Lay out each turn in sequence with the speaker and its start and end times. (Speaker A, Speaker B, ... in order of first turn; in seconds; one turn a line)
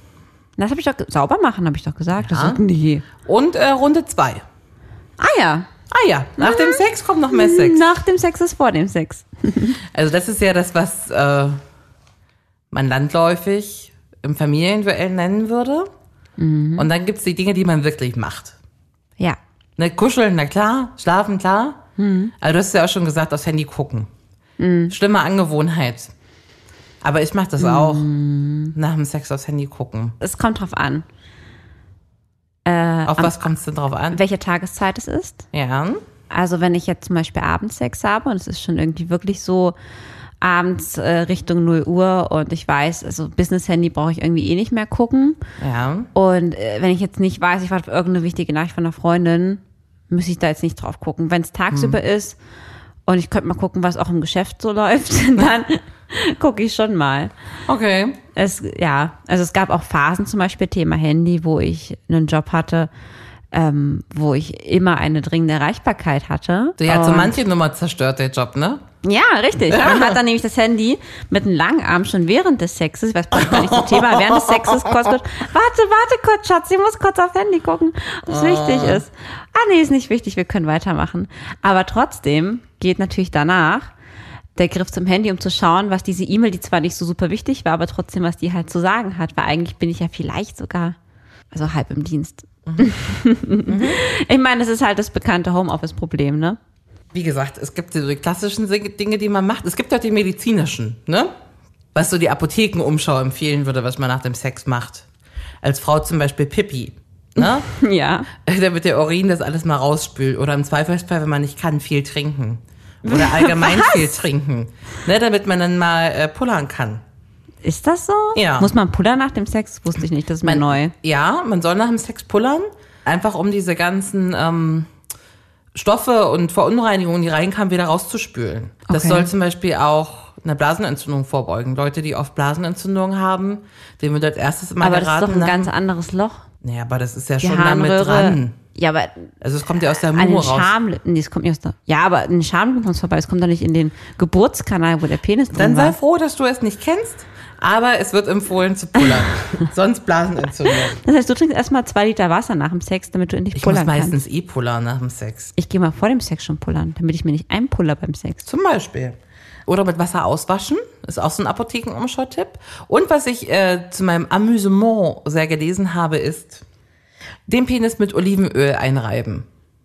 Speaker A: 0.6-3.0
Speaker B: 2.2-2.6
Speaker B: 3.2-4.4
Speaker A: 5.2-5.7
Speaker B: 5.9-7.8
Speaker A: 6.4-9.8
Speaker B: 9.9-11.6
Speaker B: 12.7-15.9
Speaker A: 16.4-16.9
Speaker B: 16.8-18.5
Speaker B: 19.8-21.8
Speaker A: 22.0-22.3
Speaker B: 22.4-24.1
Speaker A: 24.6-24.9
Speaker B: 24.9-26.1
Speaker B: 27.0-28.0
Speaker A: 27.6-28.7
Speaker B: 28.7-30.1
Speaker A: 30.2-31.0
Speaker A: 32.6-33.3
Speaker B: 33.1-34.2
Speaker A: 34.1-35.4
Speaker B: 35.5-36.0
Speaker A: 36.3-39.7
Speaker A: 40.4-45.4
Speaker B: 45.6-46.1
Speaker A: 46.1-52.4
Speaker B: 51.7-52.0
Speaker A: 53.1-57.3
Speaker B: 57.7-58.2
Speaker A: 58.4-62.9
Speaker A: 63.5-67.4
Speaker B: 66.8-68.8
Speaker A: 69.0-83.9
Speaker B: 69.7-70.2
Speaker B: 73.3-75.1
Speaker B: 78.3-79.0
Speaker A: 84.5-91.0
Speaker A: 91.5-96.6
Speaker B: 92.7-92.9
Speaker B: 93.7-94.0
Speaker B: 97.1-101.3
Speaker B: 101.9-105.0
Speaker B: 105.6-107.7
Speaker A: 107.4-108.3
Speaker B: 108.4-117.0
Speaker A: 113.0-114.1
Speaker A: 117.6-120.9
Speaker B: 118.3-118.7
Speaker B: 120.4-124.9
Speaker B: 125.7-135.7
Speaker A: 128.9-129.3
Speaker A: 134.8-136.4
Speaker B: 136.6-138.5
Speaker A: 137.4-139.3
Speaker B: 139.4-140.7
Speaker A: 140.2-145.9
Speaker B: 145.5-151.0
Speaker A: 151.0-154.2
Speaker B: 153.5-155.5
Speaker A: 155.6-158.4
Speaker B: 158.4-159.2
Speaker B: 159.7-166.6
Speaker B: 167.5-169.4